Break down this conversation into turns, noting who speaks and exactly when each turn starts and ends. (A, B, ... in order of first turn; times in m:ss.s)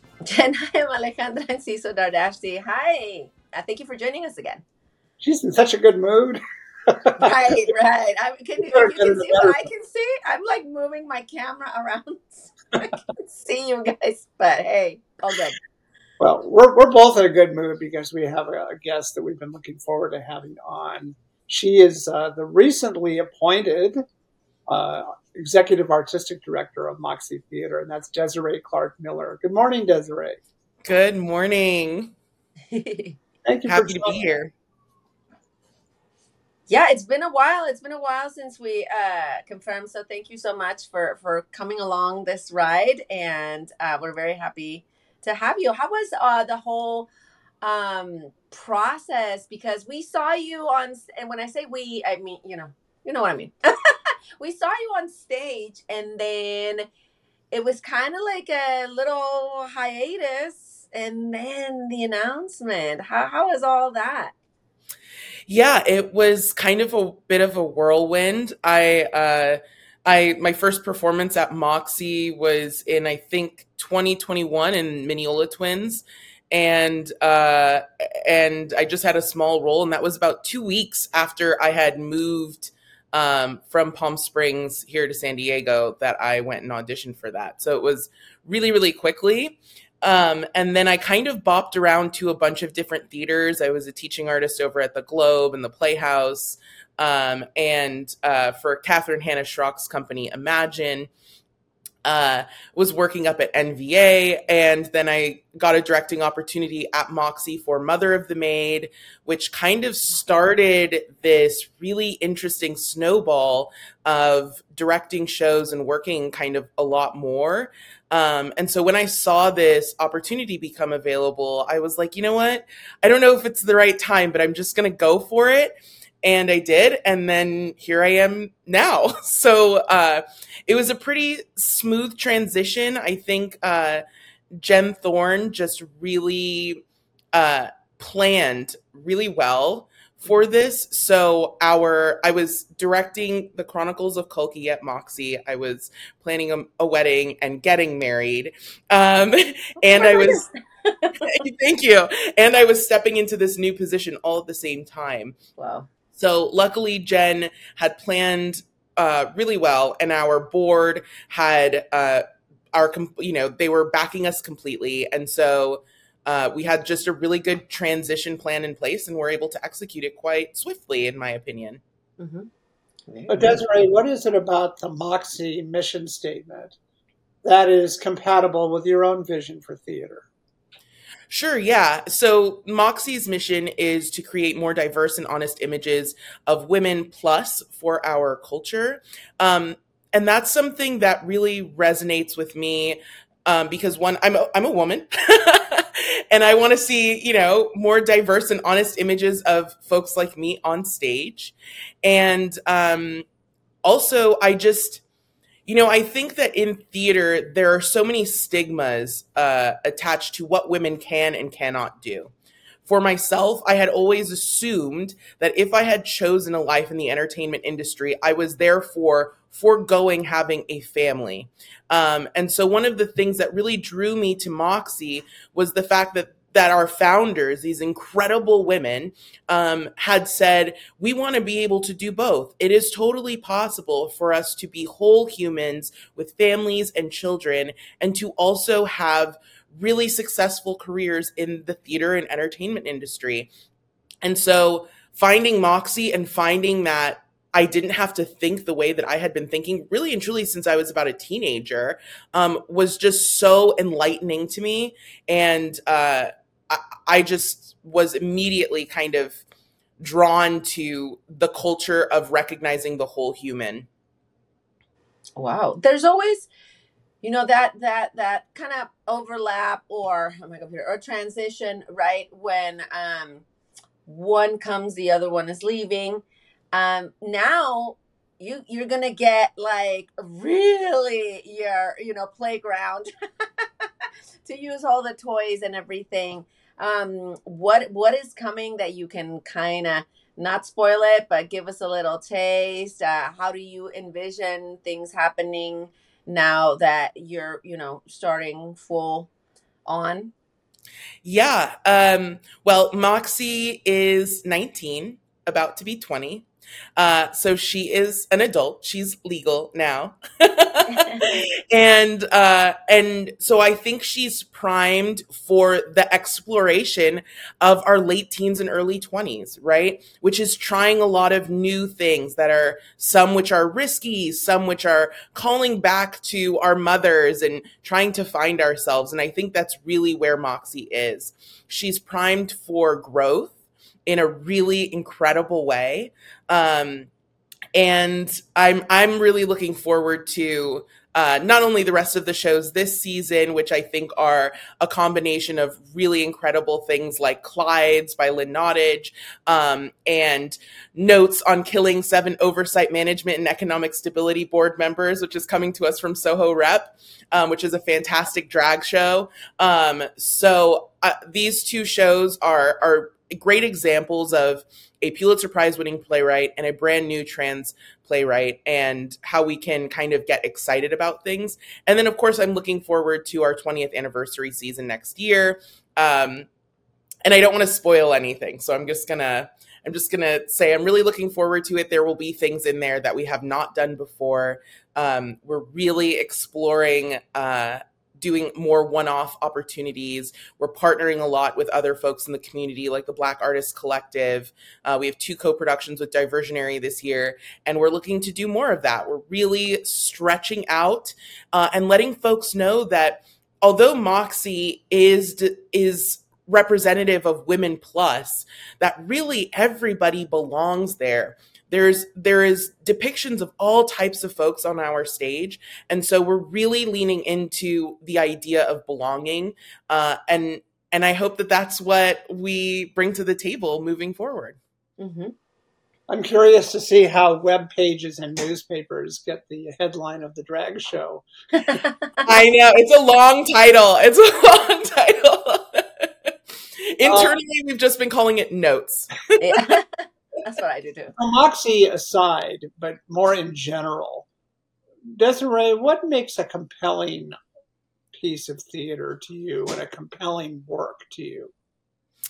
0:00.2-0:04.6 A
0:05.2-0:07.6 B
0:07.2-0:15.6 A
0:08.7-0:09.6 B
0:16.2-0:24.0 B
0:24.7-0:30.4 B
0:30.8-0:32.1 C
0:32.7-0:33.2 A
0:33.4-0:34.2 B
0:33.7-0:34.5 C
0:36.7-0:47.1 A
0:47.6-0:56.9 A
0:57.5-1:04.3 A
1:05.5-1:41.1 C
1:42.0-2:14.0 C
2:14.6-2:16.8 C
2:17.3-2:30.5 C
2:30.0-2:31.3 A
2:31.2-2:35.4 C
2:35.6-2:35.9 A
2:36.1-2:51.8 C
2:52.2-2:52.5 A
2:53.1-2:53.6 A
2:53.3-2:56.8 B
2:57.4-3:00.3 B
3:01.3-3:23.3 C
3:23.8-3:25.0 C
3:25.7-3:32.3 C
3:32.8-4:03.5 C
4:04.2-4:19.4 C
4:20.0-4:23.9 C
4:25.4-4:26.5 A
4:27.2-4:33.4 A
4:34.1-4:43.9 A
4:44.4-4:59.3 A
4:59.9-5:00.3 A
5:01.2-5:06.5 C
5:07.0-5:33.6 C
5:34.1-5:37.1 C
5:37.8-6:16.5 C
6:17.2-7:04.6 C
7:05.0-7:05.3 A
7:06.1-7:11.8 B
7:11.6-7:12.3 A
7:12.2-7:19.8 C
7:17.0-7:17.4 B
7:19.4-7:21.1 A
7:21.2-7:24.3 B
7:25.1-7:27.4 B
7:28.1-7:31.5 B